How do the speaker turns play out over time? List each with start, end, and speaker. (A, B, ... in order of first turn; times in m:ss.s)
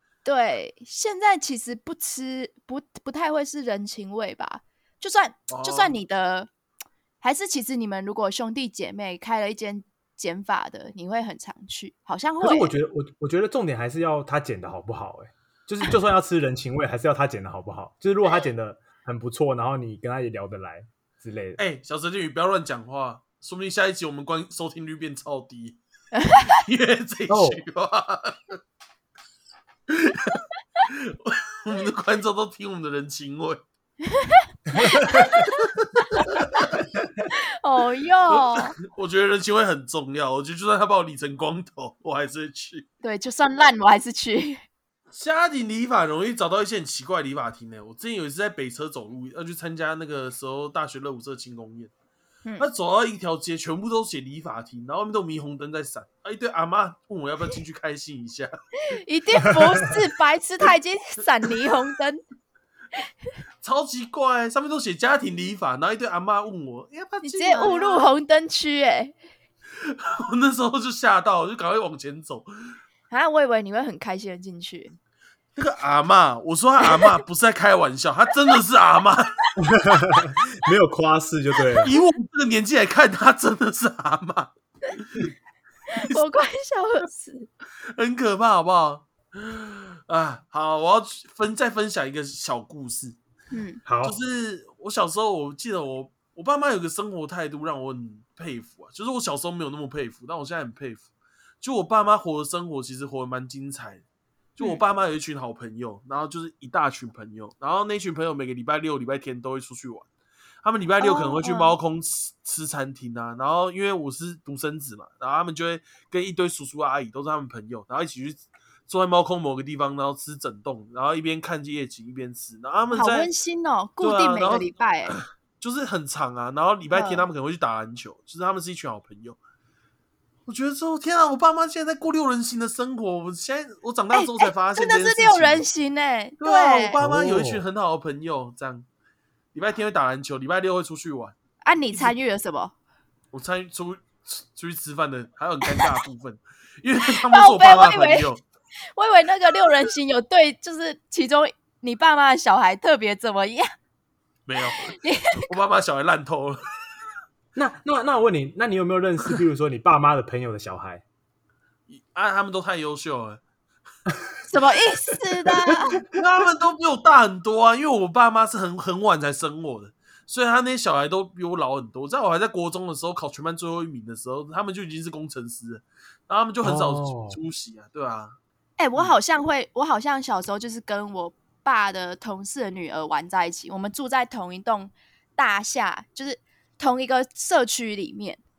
0:00.2-0:06.5 A
0:05.5-0:06.0 B
0:07.2-0:12.7 A
0:12.4-0:21.6 C
0:21.6-0:25.8 B
0:26.1-0:26.6 A
0:26.5-0:28.6 B
0:27.3-0:27.6 C
0:29.9-0:33.6 B
0:34.0-0:36.6 A
0:34.8-0:35.3 C
0:35.4-0:36.7 B
0:37.6-0:38.8 A
0:38.3-0:42.8 B
0:43.0-0:44.6 A
0:45.1-0:51.9 B
0:52.6-0:58.5 B
0:58.9-1:02.2 A
1:03.6-1:08.1 B
1:07.2-1:09.1 A
1:09.8-1:12.5 B
1:13.1-1:14.9 A
1:15.6-1:19.3 B
1:16.8-1:17.2 A
1:19.6-1:21.9 C
1:21.8-1:25.3 B
1:25.9-1:27.5 A
1:27.9-1:33.2 B
1:33.5-1:33.8 A
1:33.8-1:34.2 C
1:34.0-1:41.0 B
1:41.6-1:44.0 B
1:44.6-1:50.1 B
1:50.6-2:03.3 B
1:51.0-1:51.8 A
2:02.9-2:05.2 A
2:04.0-2:09.4 B
2:06.9-2:07.2 A
2:10.5-2:15.6 B
2:14.1-2:17.0 A
2:16.4-2:18.8 B
2:17.0-2:17.6 C
2:19.5-2:21.3 B
2:21.6-2:22.7 A
2:23.3-2:28.4 B
2:25.6-2:26.0 A
2:27.2-2:28.3 A
2:29.0-2:33.7 A
2:34.4-2:36.6 B
2:34.8-2:35.5 A
2:37.5-2:41.0 C
2:41.9-2:43.4 B
2:44.5-2:46.0 A
2:46.1-2:58.4 B
2:56.6-2:57.4 C
2:58.8-3:08.4 A